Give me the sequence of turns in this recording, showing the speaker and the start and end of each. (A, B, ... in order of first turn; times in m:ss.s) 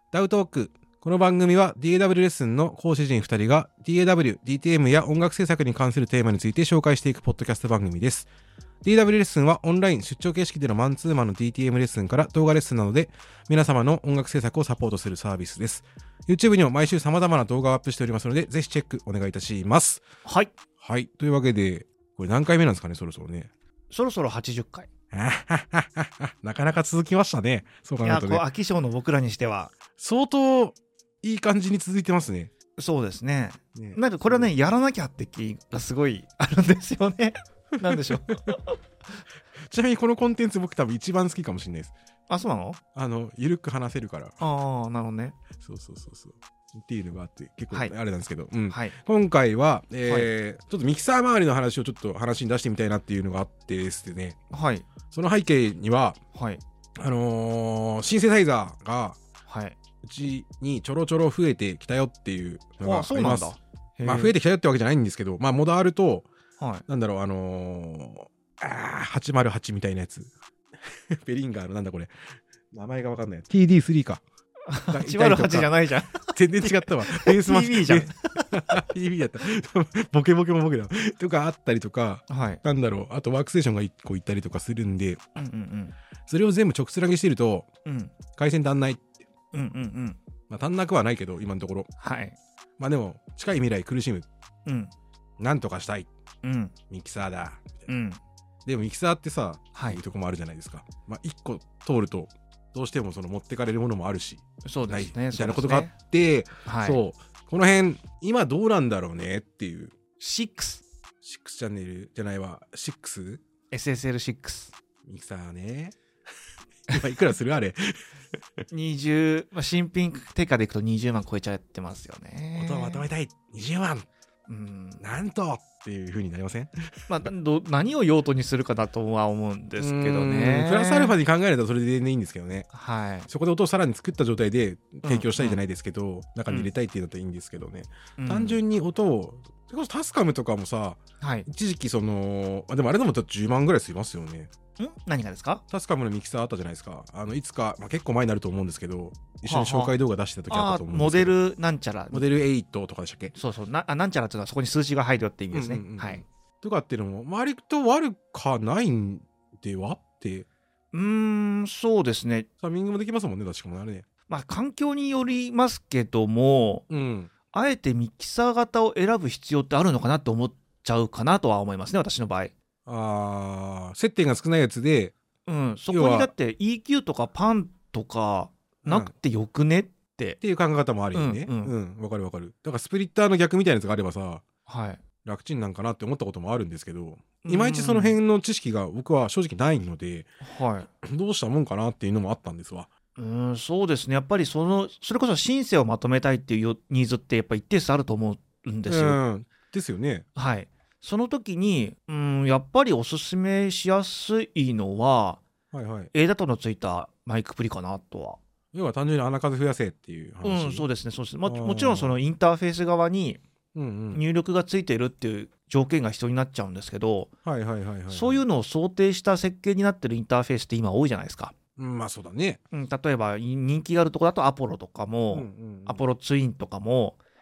0:00.1-0:08.3 A
0:08.8-0:20.0 A
0:20.2-0:20.5 B
0:20.8-0:23.5 A
0:23.9-0:24.9 B
0:25.1-0:28.4 A
0:28.0-0:29.7 B
0:30.0-0:32.5 A
0:32.8-0:38.8 B
0:33.7-0:34.5 A
0:37.8-0:38.6 A
0:39.6-0:41.9 A
0:42.3-0:42.8 B
0:42.9-0:44.3 A
0:44.4-0:45.4 B
0:45.6-0:54.4 A
0:48.7-0:49.0 B
0:54.5-0:54.8 B
0:55.1-0:56.2 A
0:56.3-0:56.6 B
0:57.0-0:59.2 A
0:59.5-0:59.8 B
1:00.0-1:06.3 A
1:02.8-1:04.3 B
1:06.6-1:06.8 B
1:06.9-1:10.3 A
1:11.1-1:14.2 A
1:14.7-1:18.8 B
1:14.9-1:25.2 A
1:22.3-1:22.6 B
1:25.4-1:25.9 B
1:26.3-1:27.7 A
1:27.8-1:28.1 B
1:28.3-1:29.0 A
1:29.5-1:30.2 B
1:30.5-1:31.9 A
1:32.0-1:32.4 B
1:32.8-1:34.3 A
1:34.6-1:34.9 B
1:35.4-1:36.1 A
1:36.4-1:36.7 B
1:36.9-1:37.9 A
1:37.9-1:38.2 B
1:38.6-1:50.0 A
1:39.7-1:40.0 B
1:44.6-1:45.9 B
1:46.6-1:47.0 B
1:50.2-1:50.8 B
1:51.2-1:53.4 A
1:53.7-1:54.7 B
1:55.0-1:56.0 A
1:56.9-1:58.0 A
1:58.7-2:03.0 B
2:02.6-2:04.1 A
2:04.5-2:05.0 B
2:05.0-2:06.7 A
2:07.1-2:11.1 B
2:09.8-2:12.7 A
2:12.7-2:13.3 B
2:13.3-2:24.5 A
2:15.0-2:15.6 B
2:18.2-2:18.6 B
2:21.2-2:21.5 B
2:24.8-2:25.6 B
2:25.7-2:31.3 A
2:29.4-2:29.9 B
2:30.5-2:32.2 B
2:32.1-2:33.3 A
2:33.3-2:36.2 B
2:35.5-2:40.5 A
2:40.9-2:42.5 B
2:42.6-2:44.0 A
2:44.3-2:46.8 B
2:46.9-2:47.3 A
2:47.5-2:52.5 B
2:52.8-2:55.1 A
2:55.4-3:00.4 B
2:55.9-2:56.3 A
2:58.8-2:59.1 A
3:00.4-3:04.4 A
3:01.1-3:01.7 B
3:04.6-3:05.0 B
3:05.2-3:10.3 A
3:07.4-3:08.2 B
3:10.4-3:10.9 B
3:11.0-3:12.9 A
3:13.2-3:19.2 B
3:18.9-3:20.2 A
3:20.4-3:25.4 B
3:25.7-3:26.1 A
3:26.1-3:28.4 B
3:28.7-3:30.9 A
3:30.4-3:33.4 B
3:31.4-3:32.2 A
3:33.7-3:34.2 A
3:34.1-3:37.3 B
3:37.4-3:38.4 A
3:38.1-3:41.5 B
3:41.8-3:42.6 A
3:42.7-3:47.2 B
3:45.3-3:46.0 A